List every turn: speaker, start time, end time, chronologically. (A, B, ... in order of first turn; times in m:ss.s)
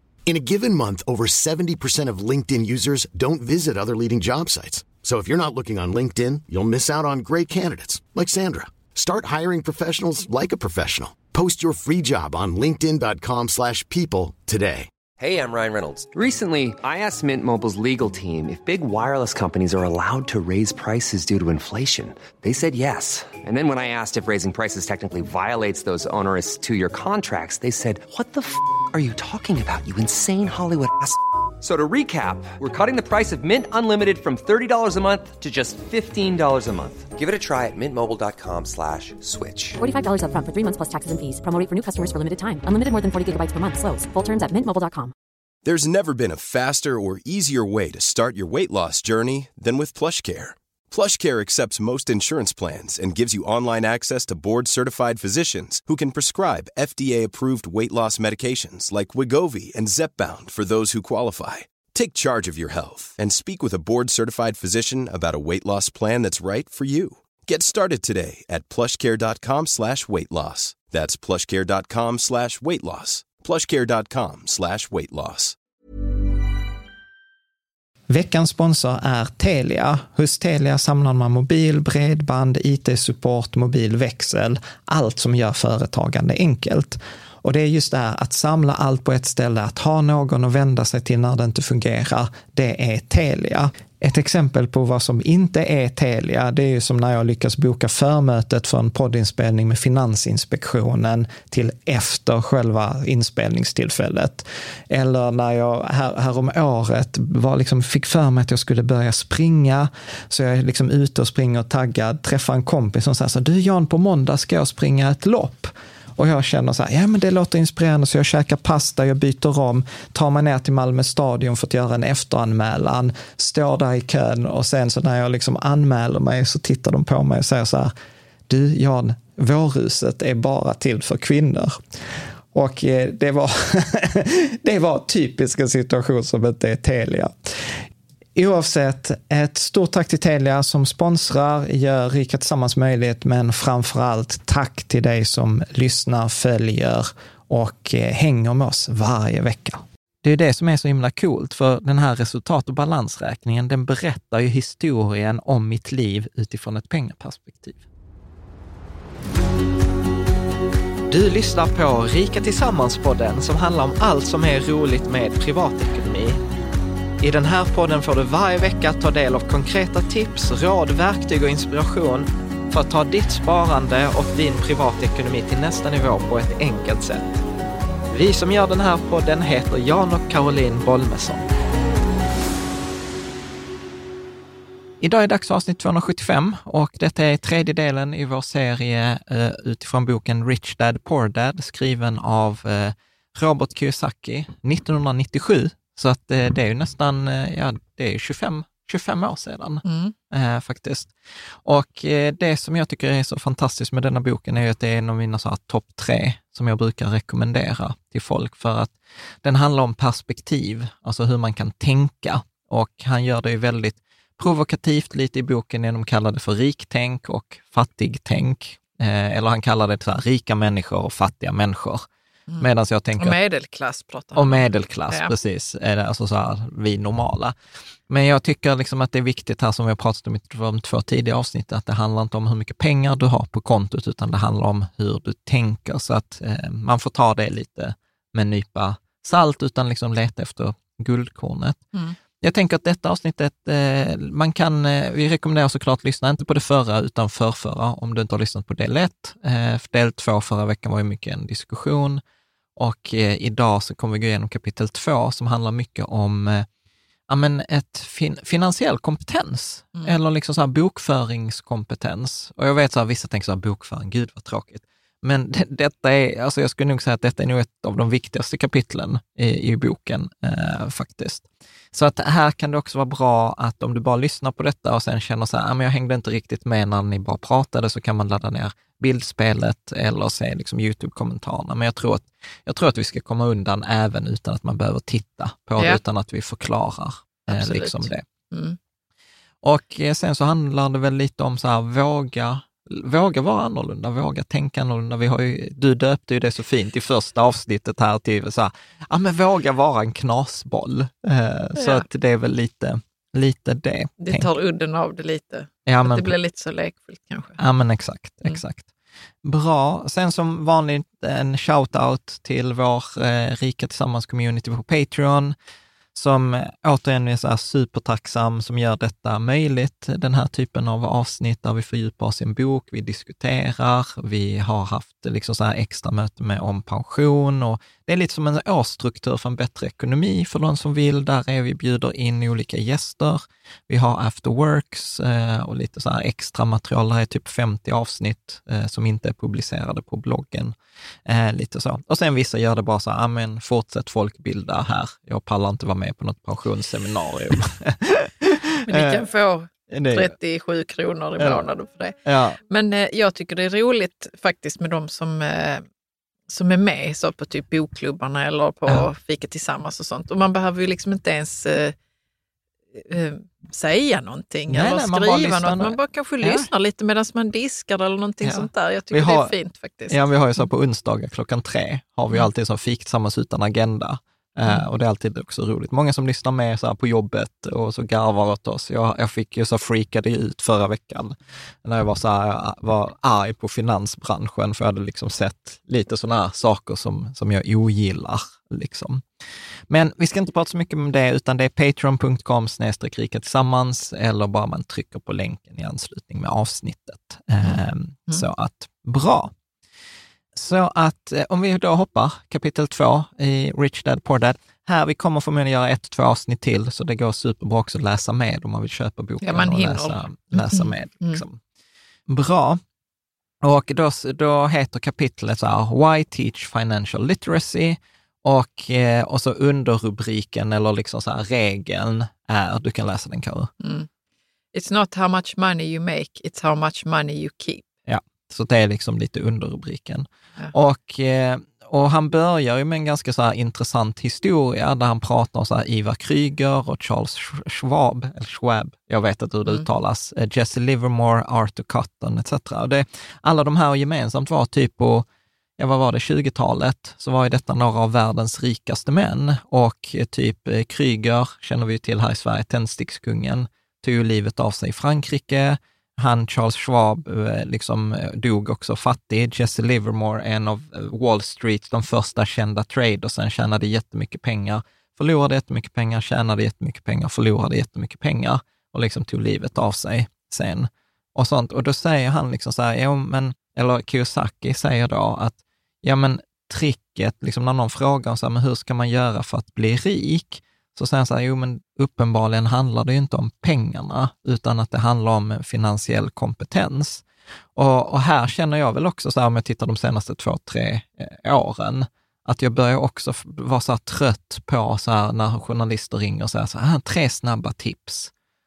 0:00.3-0:14.9 A
0:15.2-0:39.8 B
0:39.8-0:45.1 C
0:45.6-1:15.6 D
1:18.1-2:07.9 E
2:08.5-2:11.8 E
2:12.5-2:17.8 E
2:18.4-2:37.8 E
2:41.1-2:46.4 E
2:47.2-2:57.4 E
2:58.1-3:01.5 E
3:05.0-3:21.1 E
3:19.8-3:20.1 F
3:21.6-3:42.0 E
3:42.5-3:45.3 F
3:42.6-3:43.4 E
3:44.3-3:47.6 E
3:48.1-4:01.8 E
4:02.4-4:12.2 E
4:12.8-4:16.7 E
4:17.3-4:48.2 E
4:47.5-4:48.8 F
4:49.6-5:04.5 E
5:01.8-5:02.0 F
5:04.2-5:07.6 F
5:05.8-5:06.3 E
5:07.6-5:08.9 E
5:09.4-5:15.5 E
5:16.1-5:49.2 E
5:48.8-5:52.2 F
5:49.9-5:50.3 E
5:51.4-5:51.6 E
5:52.2-5:52.6 E
5:52.7-5:55.8 F
5:56.5-6:01.9 F
6:03.0-6:10.6 F
6:04.7-6:06.7 E
6:08.4-6:09.5 E
6:10.1-6:29.2 E
6:29.9-6:39.5 E
6:37.6-6:38.4 F
6:40.5-6:51.6 E
6:49.4-6:51.4 F
6:52.3-6:52.8 E
6:53.6-7:03.7 E
7:03.8-7:04.1 F
7:04.7-7:07.8 F
7:08.1-7:25.2 E
7:25.8-8:07.2 E
8:07.7-8:18.3 E